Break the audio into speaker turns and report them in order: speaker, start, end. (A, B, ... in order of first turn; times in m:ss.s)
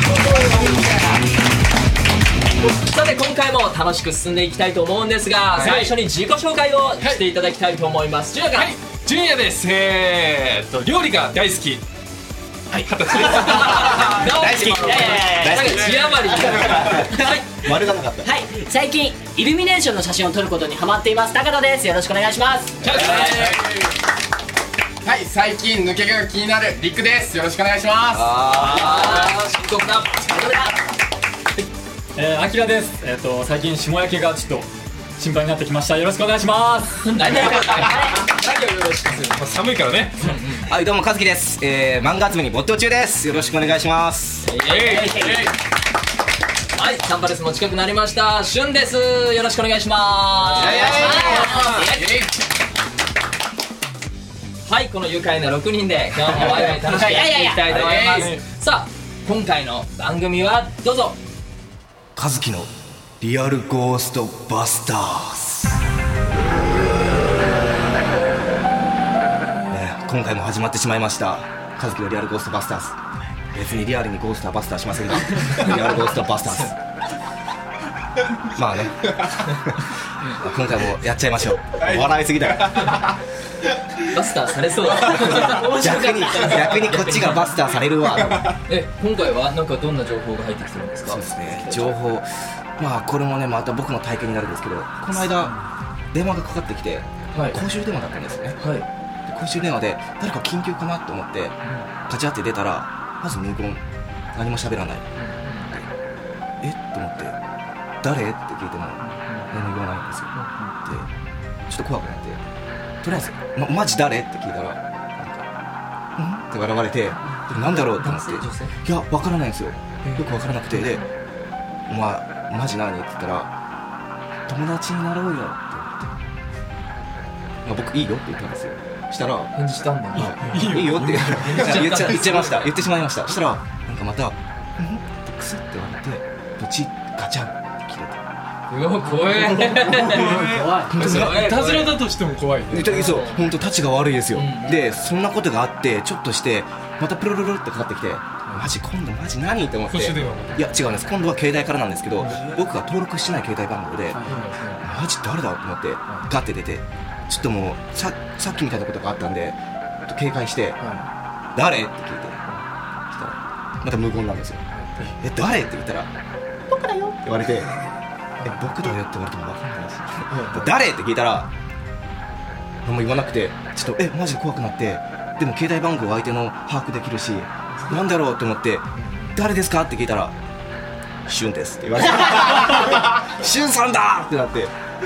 0:02.6-0:08.8 A
0:05.5-0:05.9 B
0:08.6-0:11.8 B
0:12.7-0:14.3 B
0:13.3-0:17.5 A
0:13.9-0:18.3 C
0:14.8-0:17.2 D
0:15.6-0:16.8 B
0:18.2-0:22.8 D
0:22.8-0:23.7 A
0:22.8-0:23.3 B
0:23.1-0:23.9 E
0:25.0-0:28.5 E
0:28.3-0:30.6 A
0:28.4-0:28.9 C
0:28.9-0:29.2 D
0:30.4-0:30.7 D
0:32.2-0:37.6 F
0:37.0-0:39.4 A
0:37.9-0:38.2 D
0:39.3-0:40.4 B
0:40.2-0:40.7 A
0:40.7-0:44.5 C
0:44.4-0:45.5 A
0:44.7-0:45.5 B
0:46.7-0:52.3 A
0:50.5-0:51.5 C
0:50.8-0:51.8 D
0:50.9-0:52.2 B
0:54.7-1:01.2 A
0:56.4-0:58.3 D
0:57.9-0:58.4 B
1:02.2-1:05.8 C
1:06.4-1:08.1 C
1:09.7-1:13.0 C
1:13.5-1:16.8 C
1:15.4-1:16.7 A
1:18.5-1:23.1 C
1:23.9-1:27.5 A
1:25.0-1:28.6 C
1:28.2-1:31.3 A
1:31.1-1:35.6 C
1:36.1-1:38.6 C
1:37.3-1:37.6 A
1:38.6-1:38.9 A
1:39.3-1:43.8 C
1:41.6-1:41.9 A
1:44.4-1:45.9 C
1:45.2-1:45.7 A
1:46.6-1:47.4 C
1:48.0-1:51.1 C
1:49.0-1:49.7 A
1:50.3-1:50.8 A
1:51.7-1:52.4 C
1:53.0-1:55.5 C
1:56.2-2:01.1 C
1:57.5-1:58.7 A
2:00.0-2:01.0 A
2:01.9-2:03.5 C
2:04.5-2:06.1 C
2:07.6-2:09.5 C
2:09.6-2:12.7 A
2:10.1-2:18.2 C
2:10.1-2:12.3 B
2:18.7-2:20.4 A
2:19.4-2:20.9 D
2:19.5-2:23.0 B
2:20.9-2:21.5 C
2:21.0-2:22.0 A
2:22.7-2:40.8 C
2:22.8-2:23.5 A
2:24.3-2:24.8 A
2:29.9-2:30.6 B
2:32.2-2:32.6 B
2:34.1-2:34.9 A
2:40.8-2:41.1 A
2:41.6-2:42.4 C
2:43.1-2:46.1 C
2:44.7-2:45.1 A
2:46.7-2:47.8 C
2:48.4-2:48.7 A
2:48.4-2:51.5 C
2:50.3-2:50.8 A
2:52.8-3:00.4 C
2:59.0-2:59.4 A
3:01.3-3:04.7 C